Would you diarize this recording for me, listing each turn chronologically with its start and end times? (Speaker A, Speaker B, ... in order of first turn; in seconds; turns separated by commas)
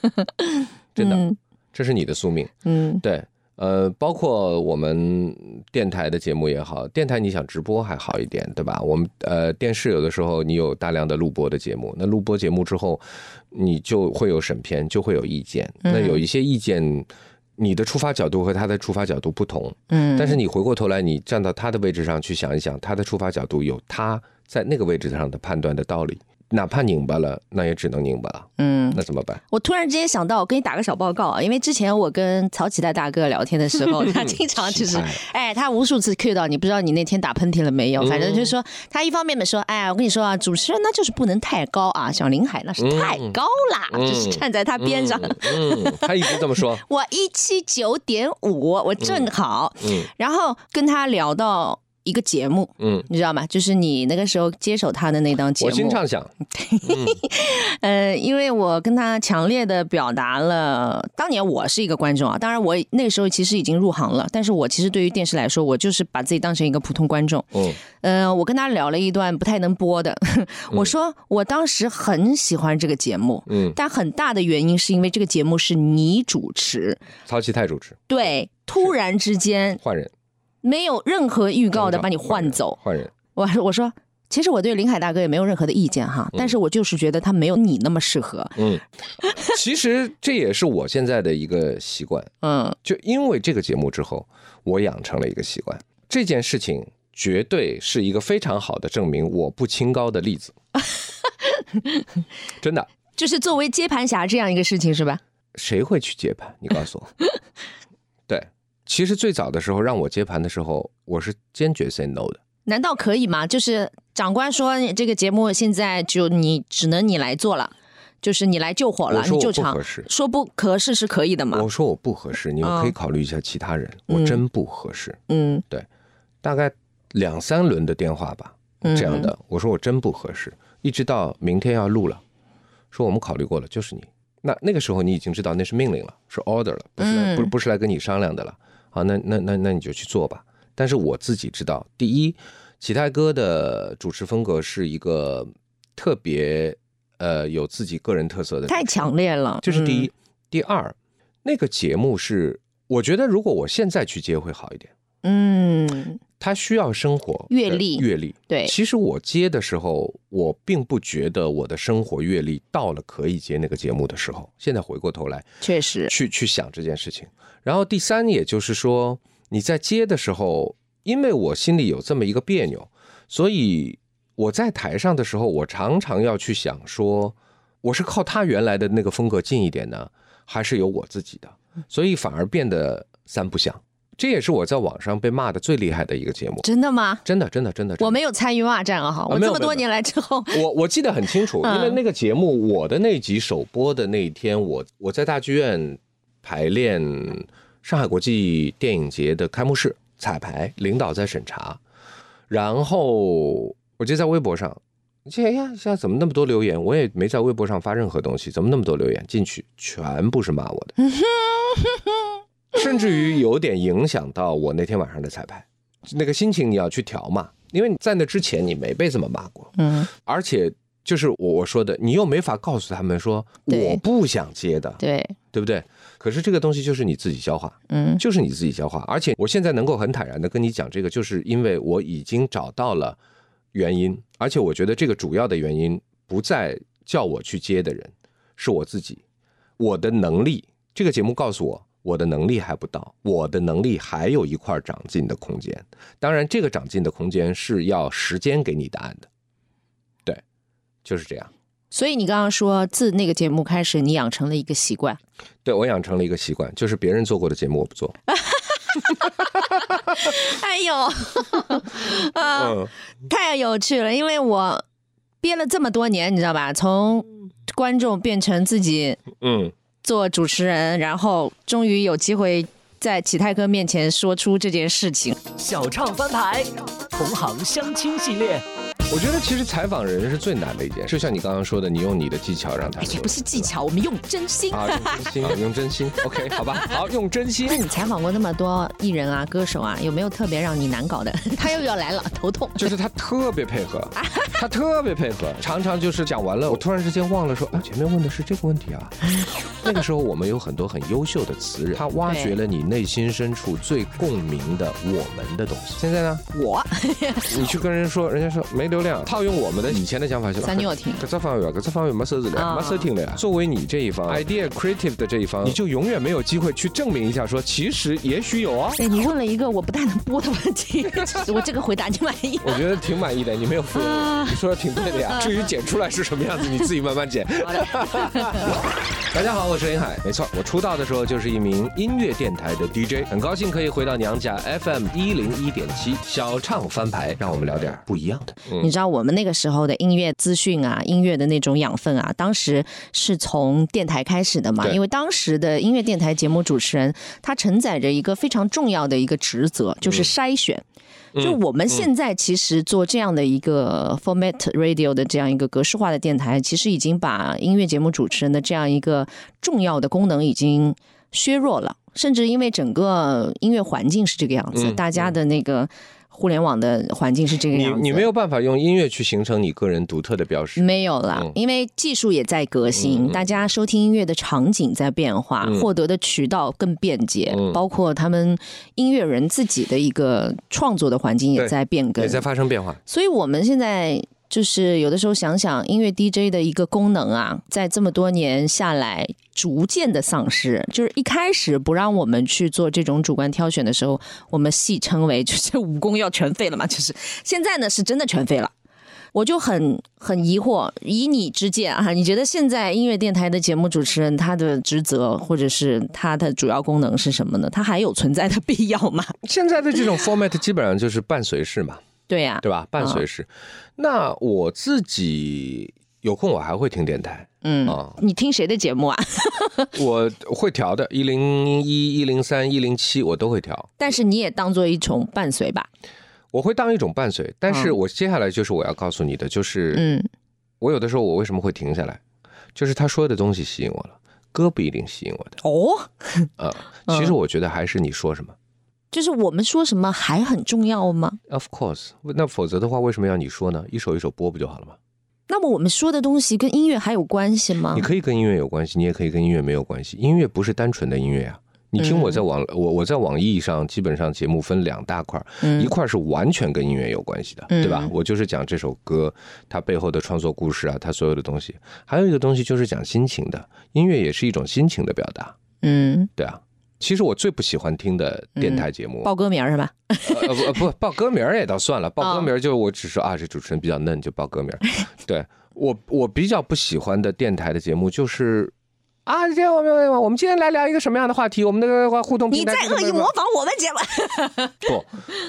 Speaker A: 0.3-1.4, Speaker B: 0.9-29.4, Speaker A: 2.6-3.0, Speaker A: 15.8-16.2, Speaker A: 19.9-20.4, Speaker A: 28.6-77.0, Speaker B: 33.8-35.2, Speaker B: 38.0-38.5, Speaker B: 42.8-43.4, Speaker B: 43.9-46.8, Speaker B: 49.0-49.3, Speaker B: 49.8-50.1, Speaker B: 52.8-53.1, Speaker B: 55.6-56.3, Speaker B: 56.8-57.2, Speaker B: 67.5-67.8, Speaker B: 73.5-73.8, Speaker B: 77.2-78.1, Speaker A: 78.1-79.8, Speaker B: 79.8-80.1, Speaker A: 80.6-82.8, Speaker B: 81.7-83.1, Speaker A: 83.3-88.6, Speaker B: 88.6-88.8, Speaker A: 89.2-89.5, Speaker B: 89.4-92.3, Speaker A: 92.4-92.8, Speaker B: 92.8-100.5, Speaker A: 101.4-102.0, Speaker B: 102.6-102.9, Speaker A: 103.2-105.2, Speaker B: 105.5-107.1, Speaker B: 108.3-112.4, Speaker A: 112.7-121.7, Speaker B: 119.1-120.1, Speaker B: 121.5-125.2, Speaker A: 122.6-122.9, Speaker A: 124.1-124.4, Speaker A: 125.3-125.6, Speaker B: 126.4-132.2, Speaker A: 128.8-129.3, Speaker B: 132.9-149.1, Speaker A: 137.0-137.5, Speaker A: 148.7-150.1, Speaker B: 149.6-154.9, Speaker A: 155.2-156.2, Speaker B: 156.4-165.5, Speaker A: 157.5-158.7, Speaker A: 165.6-166.1, Speaker B: 166.1-186.7, Speaker A: 186.6-187.2, Speaker B: 187.2-188.2, Speaker A: 188.0-190.6, Speaker B: 189.3-189.8, Speaker B: 190.5-201.8, Speaker A: 191.4-192.0, Speaker B: 202.5-210.9, Speaker A: 211.0-212.1, Speaker B: 212.7-225.0, Speaker A: 219.8-220.1, Speaker A: 223.7-224.0, Speaker A: 225.0-225.3, Speaker B: 225.5-233.2, Speaker A: 227.9-228.2, Speaker B: 233.7-239.2, Speaker B: 239.8-249.3, Speaker B: 251.0-251.5, Speaker A: 251.9-255.2, Speaker B: 255.6-258.1, Speaker A: 258.3-264.8, Speaker B: 262.5-262.9, Speaker A: 265.4-269.2, Speaker B: 269.4-269.7, Speaker A: 270.0-275.4, Speaker C: 275.6-278.6, Speaker B: 279.1-283.7, Speaker A: 283.0-285.5, Speaker B: 284.7-287.8, Speaker A: 287.6-292.9, Speaker B: 292.8-306.4, Speaker A: 294.1-294.6, Speaker A: 302.2-302.6, Speaker A: 306.5-307.7, Speaker B: 307.5-319.0, Speaker A: 310.6-311.2, Speaker A: 312.5-313.1, Speaker A: 319.0-322.9, Speaker B: 322.6-328.8, Speaker A: 323.9-324.6, Speaker A: 325.1-325.5, Speaker A: 327.6-328.7, Speaker B: 329.3-338.9, Speaker A: 338.8-350.8, Speaker B: 350.0-350.3, Speaker B: 351.3-352.1, Speaker A: 351.4-368.3, Speaker B: 364.7-365.3, Speaker B: 367.7-371.5, Speaker A: 370.8-382.4, Speaker B: 372.9-373.6, Speaker B: 377.5-377.8, Speaker B: 381.6-383.0, Speaker A: 383.1-398.7, Speaker A: 399.3-409.3, Speaker B: 409.4-412.0, Speaker A: 412.3-413.2, Speaker B: 412.6-418.2, Speaker A: 417.6-419.9, Speaker B: 419.9-424.0, Speaker A: 424.0-425.9, Speaker B: 426.5-430.0, Speaker A: 429.9-430.3, Speaker B: 430.8-432.2, Speaker B: 432.7-435.6, Speaker A: 435.6-436.5, Speaker B: 436.6-438.5, Speaker A: 439.1-441.4, Speaker B: 441.5-444.9, Speaker A: 445.5-448.1, Speaker B: 447.9-465.5, Speaker A: 452.0-452.4, Speaker A: 455.6-455.9, Speaker A: 457.7-458.1, Speaker A: 465.8-466.3, Speaker B: 466.4-469.3, Speaker A: 468.6-470.8, Speaker B: 470.2-478.7, Speaker A: 472.2-472.5, Speaker B: 479.2-483.3, Speaker A: 482.5-484.9, Speaker B: 484.8-485.1